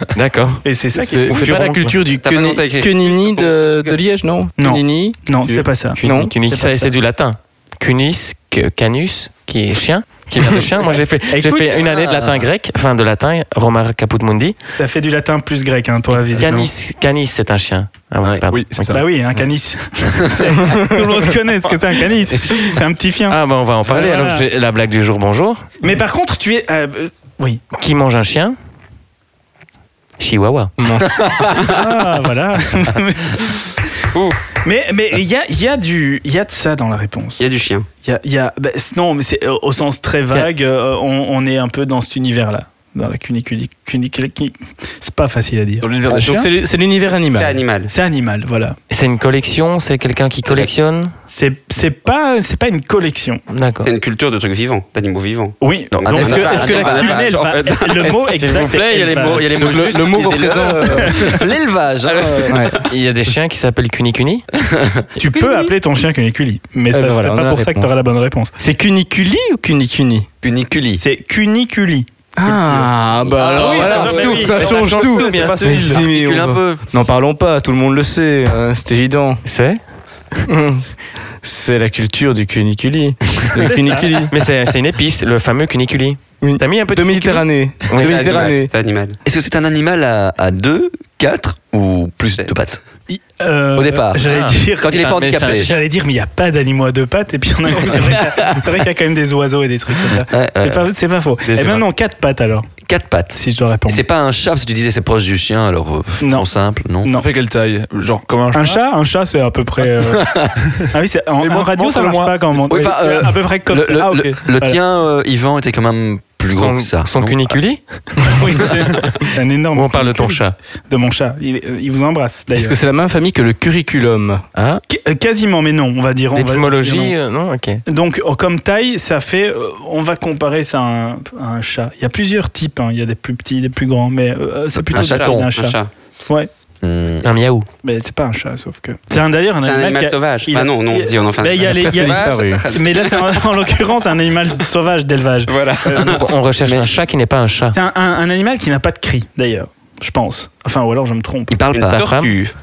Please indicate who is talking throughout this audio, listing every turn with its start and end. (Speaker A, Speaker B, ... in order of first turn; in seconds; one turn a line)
Speaker A: 0.1-0.6
Speaker B: 0.6-1.5
Speaker C: 0.9-6.3
Speaker A: 1.3-2.0
Speaker D: 2.1-4.0
Speaker B: 4.6-6.9
Speaker A: 6.0-14.6
Speaker B: 11.3-11.8
Speaker E: 11.8-12.4
Speaker B: 14.8-16.7
Speaker A: 16.1-19.0
Speaker F: 18.5-19.1
Speaker B: 18.9-24.4
Speaker E: 20.2-20.5
Speaker A: 23.3-25.7
Speaker B: 25.8-27.6
Speaker A: 27.7-28.6
Speaker A: 30.2-30.7
Speaker C: 30.8-31.3
Speaker B: 31.4-33.7
Speaker D: 31.6-31.9
Speaker D: 34.1-34.4
Speaker B: 34.6-37.5
Speaker D: 37.4-37.9
Speaker B: 38.0-46.5
Speaker F: 45.8-46.5
Speaker C: 46.1-47.6
Speaker D: 47.4-47.9
Speaker B: 47.9-48.8
Speaker A: 48.9-51.1
Speaker B: 51.3-53.4
Speaker A: 53.5-53.9
Speaker D: 53.8-58.2
Speaker B: 55.6-59.5
Speaker E: 55.9-57.2
Speaker C: 56.2-57.1
Speaker E: 58.4-62.7
Speaker C: 59.5-61.2
Speaker D: 59.6-60.6
Speaker D: 62.1-62.9
Speaker C: 62.5-62.8
Speaker A: 62.8-64.5
Speaker E: 64.5-65.7
Speaker B: 65.2-68.5
Speaker C: 66.9-67.9
Speaker C: 68.6-70.3
Speaker E: 70.4-71.0
Speaker B: 71.0-76.0
Speaker C: 72.4-79.4
Speaker E: 73.3-74.5
Speaker A: 73.8-75.9
Speaker E: 75.6-76.8
Speaker A: 79.5-79.8
Speaker C: 80.5-84.3
Speaker B: 83.6-84.3
Speaker A: 84.3-88.5
Speaker C: 86.4-88.7
Speaker D: 87.9-89.2
Speaker E: 89.2-92.8
Speaker B: 93.1-102.7
Speaker E: 93.8-95.7
Speaker A: 94.2-95.8
Speaker E: 98.0-98.5
Speaker E: 100.1-100.9
Speaker A: 101.5-101.8
Speaker E: 102.8-107.1
Speaker B: 103.3-104.0
Speaker B: 106.2-106.5
Speaker B: 107.0-107.3
Speaker F: 107.1-108.8
Speaker B: 108.5-114.8
Speaker E: 110.0-110.5
Speaker F: 111.4-112.6
Speaker E: 112.7-117.5
Speaker A: 116.5-120.5
Speaker B: 118.3-122.8
Speaker C: 122.5-124.4
Speaker A: 124.5-124.8
Speaker B: 124.9-127.2
Speaker A: 126.3-127.8
Speaker B: 127.9-136.5
Speaker E: 134.9-135.5
Speaker D: 134.9-135.9
Speaker E: 136.8-137.3
Speaker A: 137.2-137.7
Speaker B: 137.8-146.2
Speaker D: 139.7-143.4
Speaker C: 141.7-142.7
Speaker D: 145.5-146.3
Speaker A: 145.9-147.8
Speaker E: 146.6-146.9
Speaker B: 147.7-151.6
Speaker E: 151.5-152.0
Speaker D: 151.7-152.5
Speaker A: 151.9-152.3